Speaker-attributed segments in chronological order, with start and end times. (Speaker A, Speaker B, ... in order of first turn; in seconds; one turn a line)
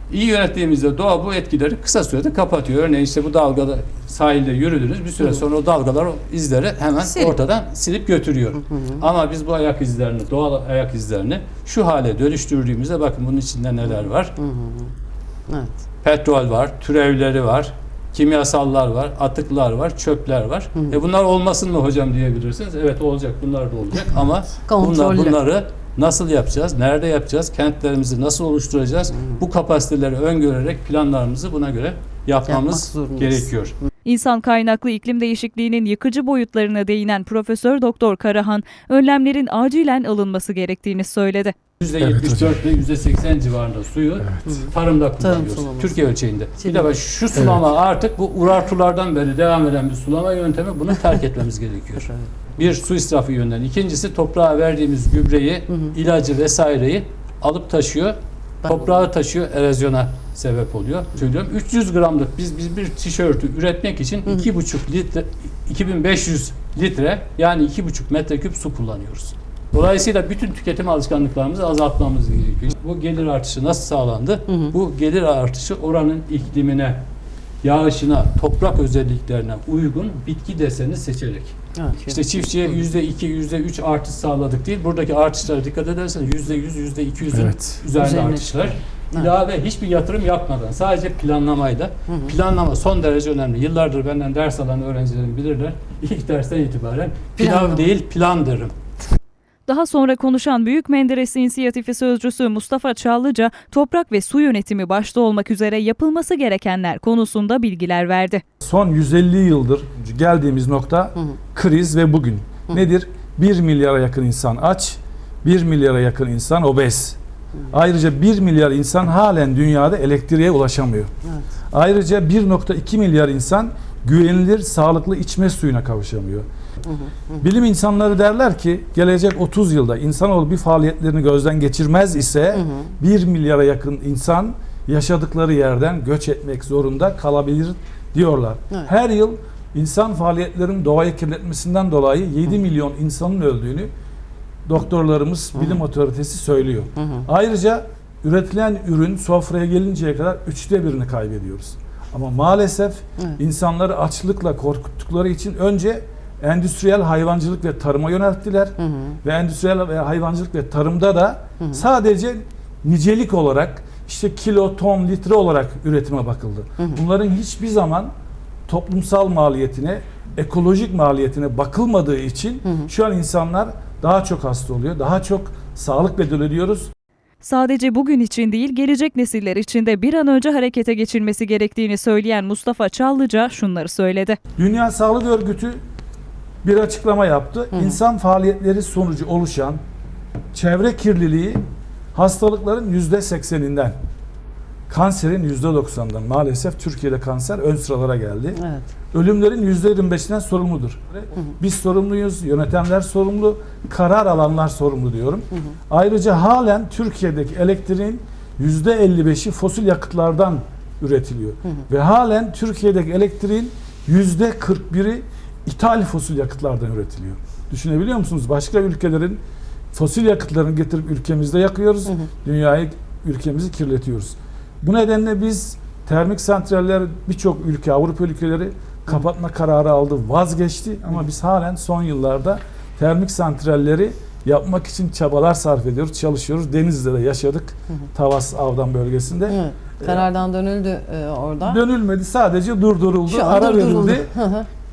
Speaker A: 0.1-14.4
Speaker B: 8.7-9.0
Speaker B: 14.4-14.9
Speaker B: 15.5-15.8
Speaker A: 16.0-33.8
Speaker B: 24.7-25.4
Speaker B: 32.5-33.5
Speaker C: 34.0-41.5
Speaker A: 41.8-77.0
Speaker B: 44.4-46.0
Speaker B: 52.0-52.3
Speaker B: 58.6-58.9
Speaker A: 77.6-98.7
Speaker B: 81.8-82.4
Speaker B: 88.0-88.4
Speaker B: 97.4-97.8
Speaker C: 99.7-108.4
Speaker D: 108.6-117.2
Speaker D: 117.7-121.1
Speaker D: 121.7-126.5
Speaker B: 126.9-127.2
Speaker D: 127.4-143.9
Speaker D: 144.7-168.1
Speaker B: 158.9-159.2
Speaker D: 168.7-176.9
Speaker C: 177.4-184.4
Speaker D: 184.6-185.8
Speaker D: 186.6-189.8
Speaker B: 187.7-188.0
Speaker D: 190.5-191.6
Speaker D: 192.1-193.9
Speaker D: 194.9-198.6
Speaker B: 198.6-198.9
Speaker D: 199.1-219.4
Speaker D: 219.9-240.3
Speaker B: 239.5-241.8
Speaker D: 241.6-244.3
Speaker B: 243.3-244.7